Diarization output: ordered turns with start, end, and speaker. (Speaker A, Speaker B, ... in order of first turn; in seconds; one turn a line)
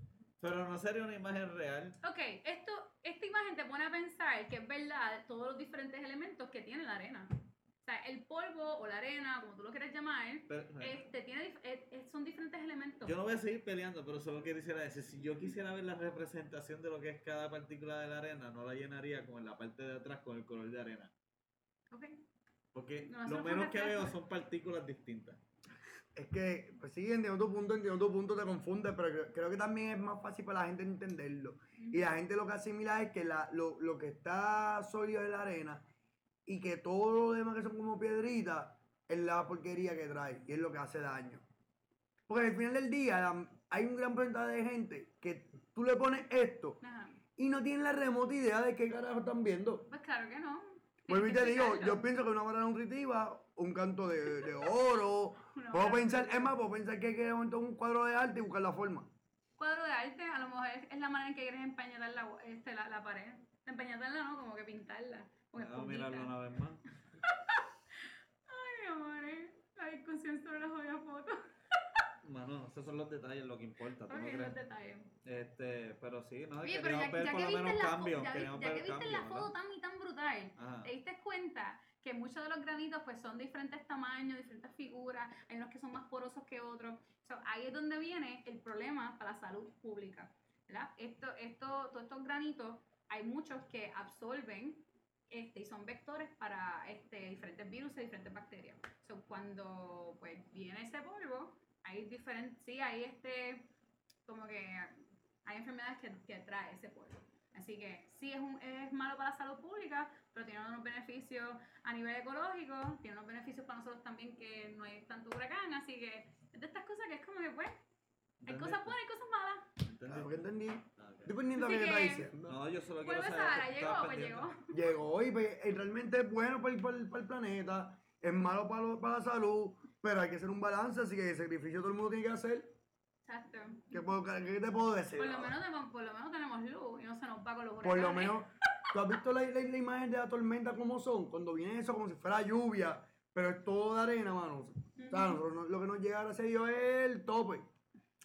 Speaker A: 0.4-2.0
Speaker B: 2.0-7.3
Speaker B: 7.8-13.2
Speaker A: 10.5-11.1
Speaker A: 13.0-21.1
Speaker B: 21.9-22.2
Speaker A: 22.7-25.4
Speaker B: 23.1-24.1
Speaker C: 26.1-35.9
Speaker B: 31.8-32.1
Speaker C: 36.5-41.4
Speaker C: 42.3-46.8
Speaker B: 46.8-47.2
Speaker C: 47.4-49.9
Speaker B: 49.9-52.0
Speaker C: 51.1-59.1
Speaker B: 55.5-56.5
Speaker B: 59.6-66.3
Speaker A: 65.5-66.8
Speaker B: 67.2-67.7
Speaker B: 68.5-71.4
Speaker A: 72.2-74.6
Speaker B: 74.1-75.1
Speaker A: 75.2-79.5
Speaker B: 76.6-103.7
Speaker A: 80.6-80.9
Speaker B: 104.3-117.8
Speaker A: 118.4-119.0
Speaker B: 118.5-119.7
Speaker A: 119.8-121.3
Speaker C: 120.1-122.6
Speaker B: 121.6-122.3
Speaker A: 122.5-124.5
Speaker B: 123.0-124.9
Speaker C: 124.7-132.7
Speaker B: 133.2-134.0
Speaker C: 133.9-135.5
Speaker B: 135.2-138.4
Speaker C: 137.8-147.7
Speaker B: 145.0-145.4